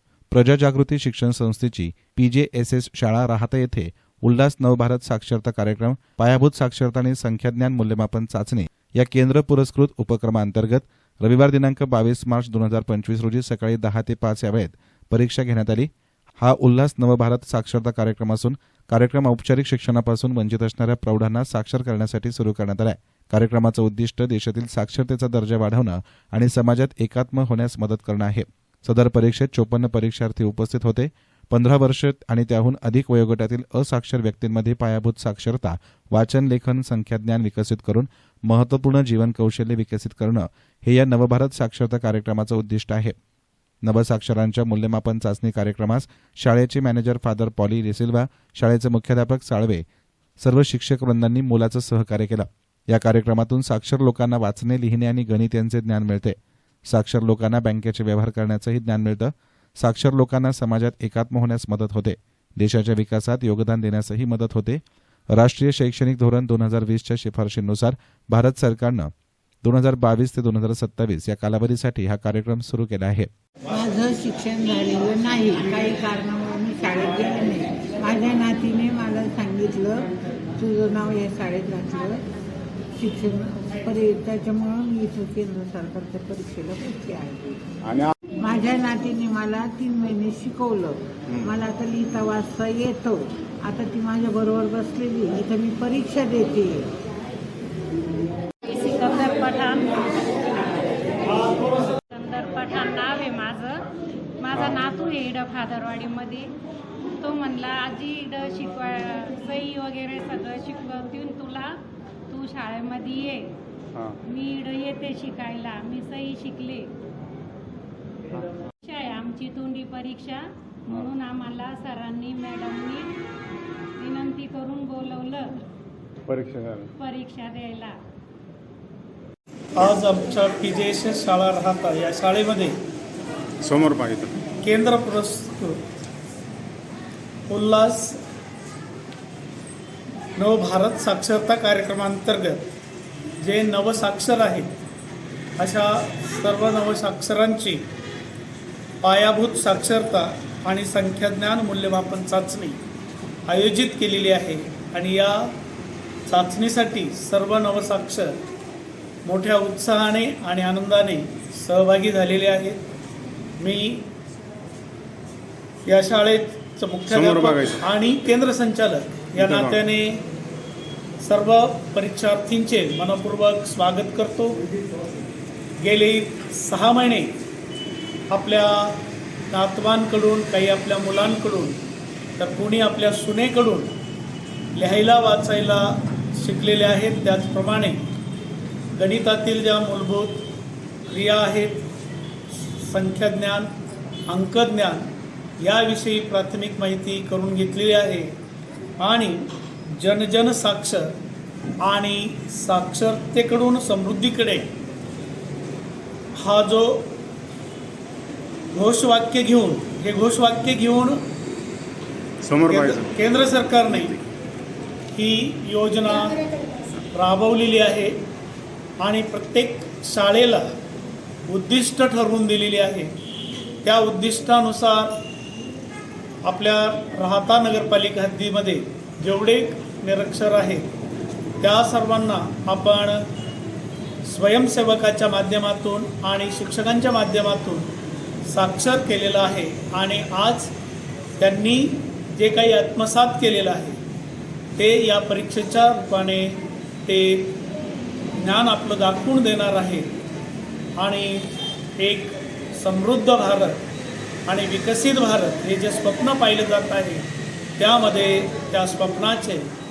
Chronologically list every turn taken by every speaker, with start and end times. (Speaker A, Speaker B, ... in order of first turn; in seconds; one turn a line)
Speaker A: 0.3-15.9
Speaker A: 16.4-43.1
Speaker A: 43.8-49.8
Speaker A: 50.4-56.4
Speaker A: 56.9-64.8
Speaker A: 65.3-69.1
Speaker A: 69.6-73.3
Speaker B: 73.7-82.2
Speaker B: 83.0-87.7
Speaker B: 88.4-96.9
Speaker C: 98.7-103.9
Speaker C: 104.4-106.5
Speaker D: 104.5-104.8
Speaker C: 107.2-113.5
Speaker C: 114.3-116.9
Speaker C: 118.8-123.1
Speaker C: 124.0-125.6
Speaker D: 126.3-126.9
Speaker C: 127.0-128.0
Speaker E: 129.8-132.8
Speaker D: 133.6-134.3
Speaker E: 134.6-135.8
Speaker E: 137.5-138.2
Speaker E: 140.4-142.7
Speaker E: 143.4-144.7
Speaker E: 145.6-147.8
Speaker E: 149.0-152.8
Speaker E: 153.5-155.5
Speaker E: 156.3-158.3
Speaker E: 159.2-162.8
Speaker E: 163.6-164.1
Speaker E: 165.9-170.2
Speaker D: 167.1-167.8
Speaker D: 169.3-169.8
Speaker E: 171.2-174.6
Speaker E: 175.8-177.3
Speaker E: 178.3-179.0
Speaker E: 179.5-181.8
Speaker E: 182.4-183.9
Speaker E: 184.8-188.0
Speaker E: 188.9-190.4
Speaker E: 191.1-191.8
Speaker E: 192.8-193.7
Speaker E: 194.3-195.1
Speaker E: 195.6-198.3
Speaker E: 199.0-201.1
Speaker E: 201.8-204.7
Speaker E: 206.4-207.1
Speaker E: 208.7-211.2
Speaker D: 212.4-213.2
Speaker E: 212.7-214.1
Speaker E: 215.1-216.4
Speaker E: 217.1-218.2
Speaker E: 219.0-220.7
Speaker E: 221.5-223.1
Speaker E: 223.8-225.2
Speaker E: 226.4-230.8
Speaker E: 231.6-233.2
Speaker E: 234.2-237.9
Speaker E: 238.5-240.7
Speaker E: 241.4-244.0
Speaker E: 244.8-247.6
Speaker E: 248.4-250.1
Speaker E: 251.0-253.8
Speaker E: 254.5-259.7